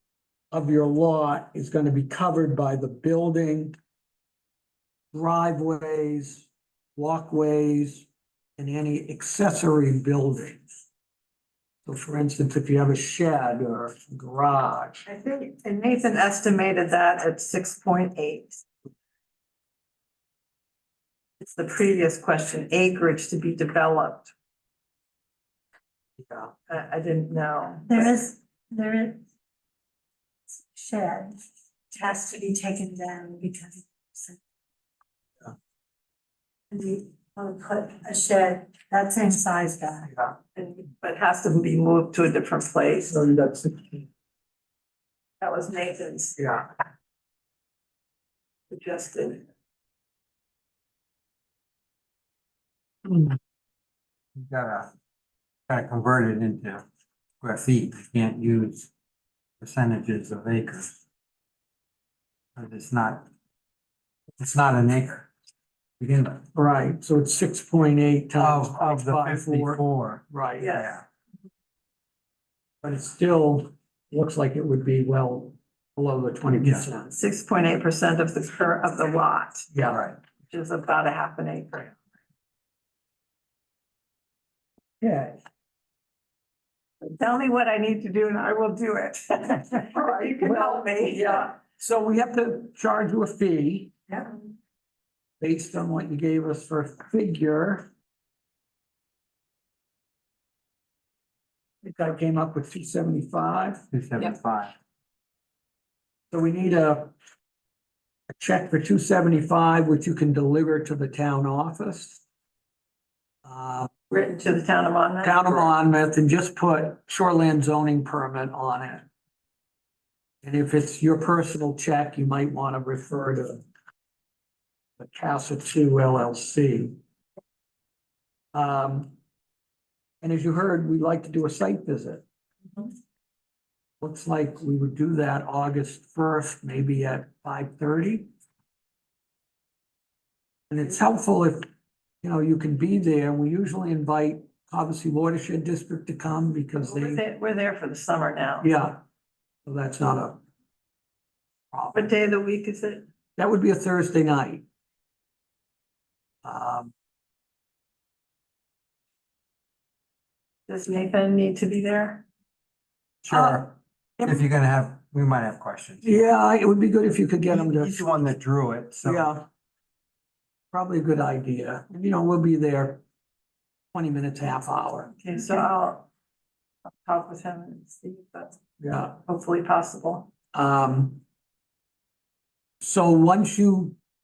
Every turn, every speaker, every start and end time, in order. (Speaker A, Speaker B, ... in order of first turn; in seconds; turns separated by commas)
Speaker A: 0.5-3.7, Speaker A: 5.1-10.7, Speaker A: 11.8-15.0, Speaker B: 15.1-18.6, Speaker B: 21.4-24.3, Speaker B: 26.7-28.1, Speaker C: 27.9-29.2, Speaker C: 30.7-31.4, Speaker C: 31.9-34.4, Speaker C: 36.7-40.1, Speaker B: 40.5-43.2, Speaker A: 43.1-44.0, Speaker B: 45.4-46.4, Speaker A: 46.4-46.6, Speaker B: 48.7-49.4, Speaker D: 54.4-54.9, Speaker D: 55.7-56.8, Speaker D: 57.4-58.9, Speaker D: 59.6-60.9, Speaker D: 62.5-63.3, Speaker D: 64.4-65.3, Speaker D: 66.0-66.4, Speaker A: 66.5-70.8, Speaker D: 68.4-71.0, Speaker B: 70.6-70.9, Speaker A: 72.8-77.1, Speaker D: 76.6-76.8, Speaker B: 77.1-79.7, Speaker A: 79.7-80.0, Speaker D: 79.9-80.2, Speaker B: 80.5-81.9, Speaker A: 85.0-85.3, Speaker B: 87.0-91.5, Speaker A: 90.4-94.0, Speaker A: 95.4-97.9, Speaker A: 101.8-103.8, Speaker D: 103.9-104.7, Speaker A: 106.3-107.1, Speaker A: 108.3-112.2, Speaker A: 113.4-113.9, Speaker B: 114.1-115.7, Speaker A: 115.2-119.1, Speaker A: 120.4-123.6, Speaker A: 125.0-127.0, Speaker A: 128.5-129.1, Speaker A: 130.2-132.2, Speaker A: 134.0-138.3, Speaker A: 140.7-141.7, Speaker A: 142.2-147.2, Speaker B: 146.8-148.7, Speaker A: 148.6-149.0, Speaker A: 149.7-150.4, Speaker A: 151.7-152.0, Speaker B: 151.9-153.1, Speaker A: 153.4-154.6, Speaker A: 156.4-156.9, Speaker B: 160.7-162.2, Speaker D: 163.2-163.7, Speaker A: 163.3-164.4, Speaker D: 164.2-166.3, Speaker A: 166.0-168.1, Speaker D: 167.5-169.3, Speaker A: 169.0-169.5, Speaker A: 170.7-173.0, Speaker A: 173.9-175.1, Speaker B: 175.2-176.1, Speaker B: 176.8-178.6, Speaker A: 178.8-179.2, Speaker B: 179.2-180.3, Speaker A: 180.5-181.2, Speaker A: 182.8-184.0